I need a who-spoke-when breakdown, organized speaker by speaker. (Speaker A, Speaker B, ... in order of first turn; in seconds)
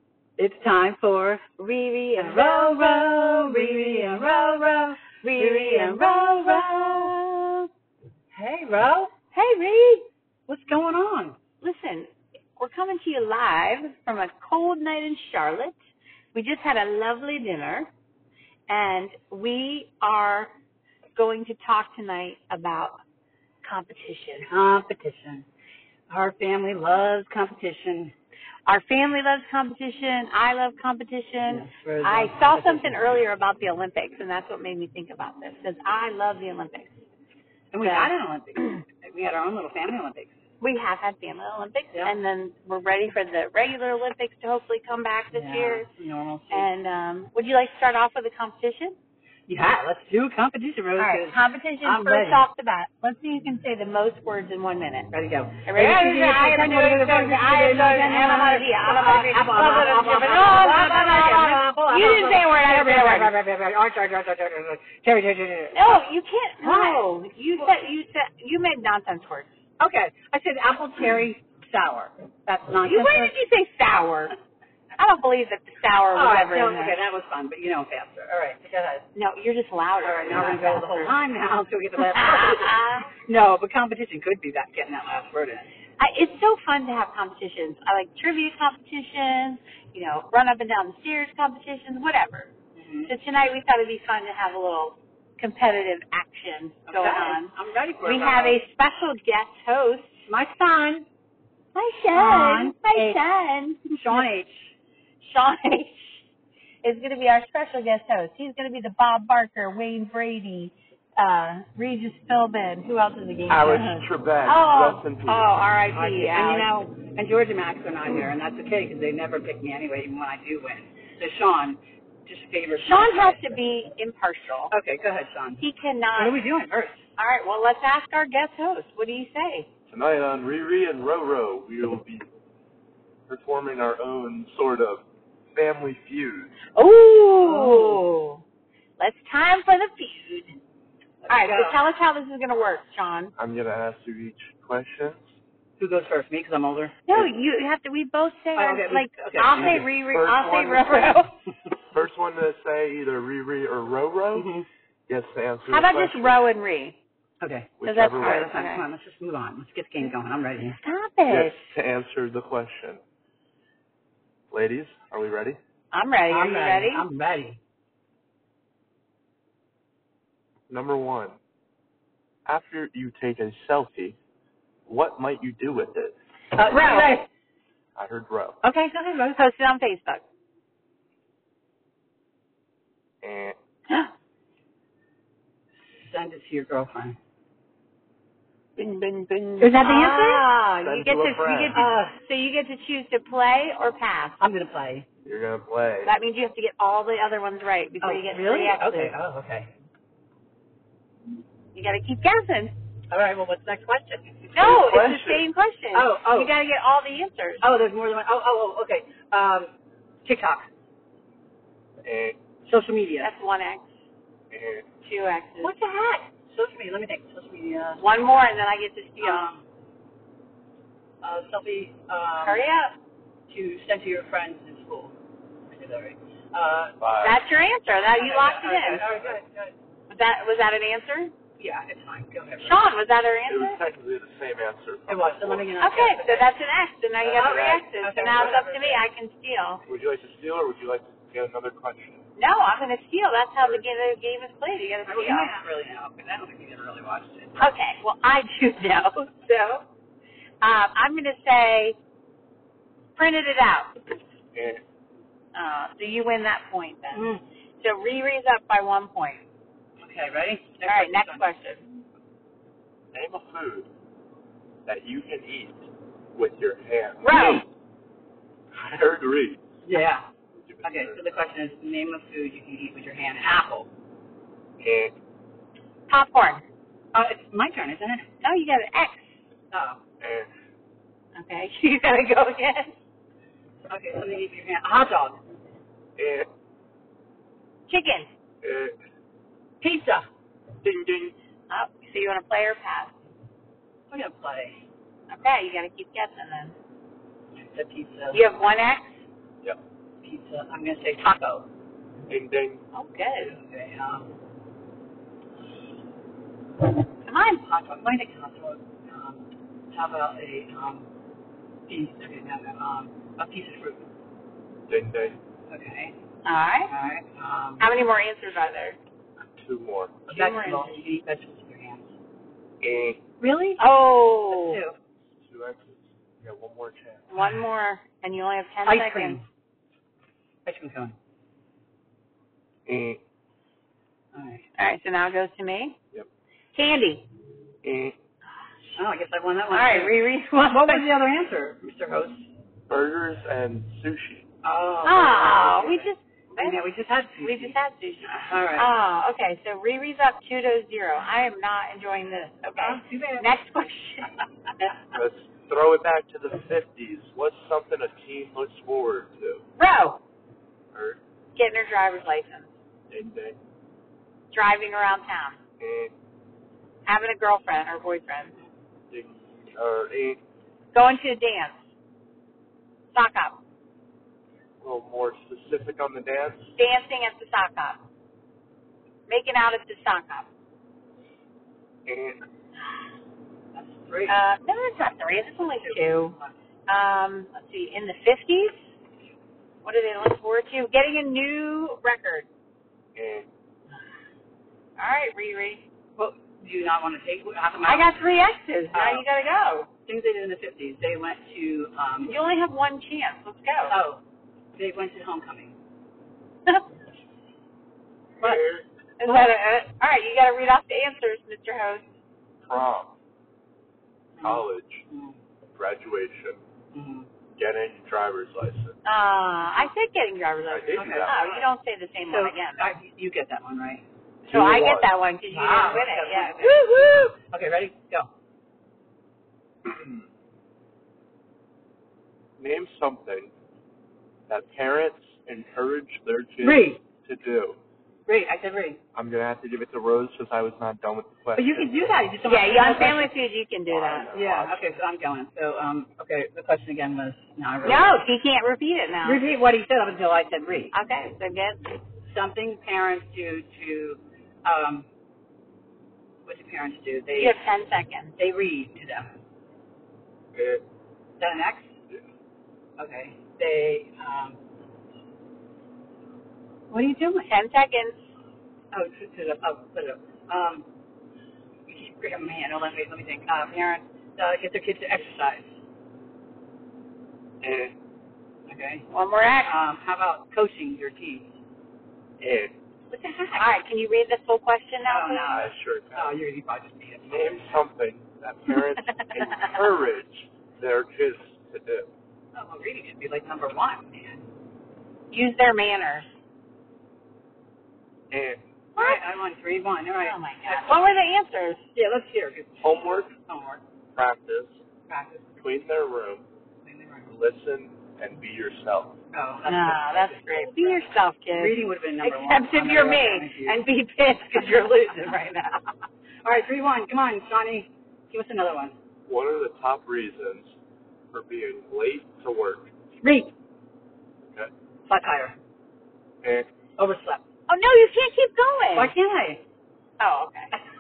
Speaker A: 0.4-1.4, 2.2-7.2, 8.3-9.1, 10.5-11.4, 24.5-25.5, 26.1-28.1, 31.5-33.0, 37.7-40.3, 45.3-46.7, 49.5-52.4, 55.1-66.0, 66.6-67.1, 69.8-73.3, 76.2-79.1, 80.0-85.7, 92.8-93.1, 96.9-98.6, 100.3-101.1, 102.1-103.2, 104.0-104.7, 115.9-123.4, 124.7-125.6, 126.2-127.0, 137.4-138.0, 141.2-141.8, 145.8-147.0, 148.6-149.8, 154.3-154.7, 157.4-160.8, 166.3-167.6, 176.6-177.2, 178.6-179.4, 185.9-187.2, 189.6-190.5, 191.7-192.2, 194.4-195.1, 198.0-199.7, 203.1-204.6, 205.9-206.5, 207.6-209.7, 210.2-210.7, 212.7-213.3, 215.6-218.0, 219.2-219.7, 221.2-222.7, 223.5-225.2, 225.7-227.0, 228.2-229.7, 231.6-232.8, 235.1-236.5, 237.4-239.0, 245.1-247.7, 257.1-257.4, 260.0-261.5, 269.9-270.3, 270.8-273.9, 277.1-278.3, 279.7-280.0, 283.9-285.4, 289.8-290.3, 294.1-294.8, 297.6-298.4, 300.2-301.7, 303.4-304.3, 307.6-311.1, 311.9-314.0, 315.7-316.1, 316.9-317.9, 320.3-322.1, 323.4-323.8, 324.5-325.0, 328.9-329.4, 330.7-331.2, 334.3-334.6, 339.0-340.2, 340.7-342.5, 344.6-347.8, 348.3-348.9, 352.8-353.5, 383.7-384.4, 385.8-386.5, 396.2-398.1, 398.9-399.2, 400.1-402.4, 403.9-404.2, 404.8-405.7, 408.4-408.6, 409.2-409.5, 414.4-415.4, 416.9-417.3, 421.0-421.6, 422.2-424.0, 425.5-428.3, 436.6-437.0, 438.3-439.0, 441.6-443.3, 444.3-448.2, 449.2-450.9, 452.3-455.1, 456.5-457.6, 458.4-459.3, 461.4-461.9, 463.0-464.6, 466.9-467.5, 468.9-470.9, 471.9-475.7, 478.7-479.1, 479.7-481.5, 483.1-483.7, 485.0-487.8, 492.6-494.4, 499.0-501.1, 501.9-502.9, 503.5-503.8, 505.1-505.5, 506.9-507.3, 509.3-513.8, 516.4-519.0, 523.2-523.5, 525.1-525.6, 527.0-527.4, 529.0-529.6
Speaker B: 1.6-4.3, 5.2-7.7, 9.3-10.1, 11.6-15.8, 16.3-17.9, 18.7-20.5, 21.1-23.0, 23.6-24.5, 28.7-37.0, 37.8-38.1, 40.6-45.9, 46.5-49.0, 51.0-55.1, 55.7-63.3, 65.7-69.5, 72.8-74.3, 75.0-77.0, 79.2-81.2, 82.0-83.1, 86.0-92.5, 93.1-97.5, 98.0-100.3, 101.8-104.2, 105.2-106.2, 106.8-116.9, 122.8-124.7, 125.6-126.4, 127.2-129.7, 136.8-138.4, 139.0-140.6, 141.3-143.3, 147.1-151.3, 155.7-157.0, 157.8-158.8, 160.8-161.6, 165.9-167.1, 176.6-177.2, 179.4-180.2, 189.6-194.4, 196.1-199.2, 201.7-202.7, 204.5-207.7, 213.2-213.9, 215.0-215.7, 218.0-219.5, 222.4-222.9, 227.2-229.1, 230.1-231.3, 232.6-233.8, 235.8-239.8, 242.4-245.6, 247.6-249.8, 250.6-252.0, 253.2-253.9, 255.6-257.3, 257.8-259.4, 260.9-261.8, 267.2-267.6, 276.1-276.6, 278.4-279.4, 281.4-282.9, 287.9-288.3, 291.7-293.1, 295.3-296.8, 298.3-299.2, 302.9-303.5, 307.3-307.6, 316.4-316.9, 317.8-319.0, 320.3-321.0, 323.8-324.8, 327.3-329.4, 334.8-336.0, 336.7-337.3, 339.7-341.1, 345.0-346.8, 347.4-354.4, 359.8-360.2, 361.6-362.7, 364.5-365.6, 367.1-368.5, 370.9-371.8, 373.1-373.6, 376.8-378.0, 379.3-380.5, 384.3-386.4, 386.9-388.9, 389.8-392.5, 395.0-395.8, 397.8-399.9, 402.3-403.9, 409.2-412.1, 419.1-422.9, 424.5-427.0, 442.4-444.3, 447.8-449.4, 450.9-451.9, 457.4-458.3, 467.4-468.2, 479.1-479.8, 483.5-485.6, 495.3-496.3, 500.2-501.8, 509.7-515.9, 527.7-529.1, 530.2-530.8
Speaker C: 113.5-115.5, 129.9-132.2, 133.3-136.6, 143.4-145.2, 149.6-151.2, 151.9-154.5, 155.1-156.4, 157.8-158.5, 161.3-163.0, 164.5-165.6, 170.7-171.4, 172.5-174.2, 174.9-176.2, 178.0-178.6, 183.2-183.6, 188.8-189.8, 190.8-191.8, 195.2-196.1, 204.6-205.4, 212.0-212.4, 214.5-214.9, 227.0-227.4, 233.5-235.7, 237.2-237.8, 239.9-242.2, 254.5-254.8, 263.1-263.9, 264.9-267.7, 268.7-269.6, 270.6-271.2, 274.8-275.1, 280.2-280.5, 286.2-286.5, 288.6-288.9, 290.8-291.3, 302.3-302.8, 314.9-315.4, 319.6-320.3, 322.8-323.2, 325.4-327.3, 332.9-333.2, 337.8-338.1, 342.9-344.5, 355.1-359.6, 360.9-361.2, 363.1-363.6, 365.8-366.1, 369.1-370.4, 374.8-376.8, 382.1-382.4, 393.2-393.5, 408.4-408.9, 412.6-413.1, 414.4-415.0, 415.8-416.6, 417.6-419.0, 420.7-421.4, 424.4-425.1, 429.8-430.2, 432.6-433.5, 434.5-437.8, 439.1-442.1, 443.9-444.9, 460.5-460.8, 477.6-477.9, 482.4-482.7, 485.5-486.4, 487.3-492.1, 498.3-498.6, 502.8-503.4, 504.1-504.8, 505.6-506.4, 507.3-509.2, 519.3-520.8, 521.3-522.9, 524.4-524.7, 526.4-526.7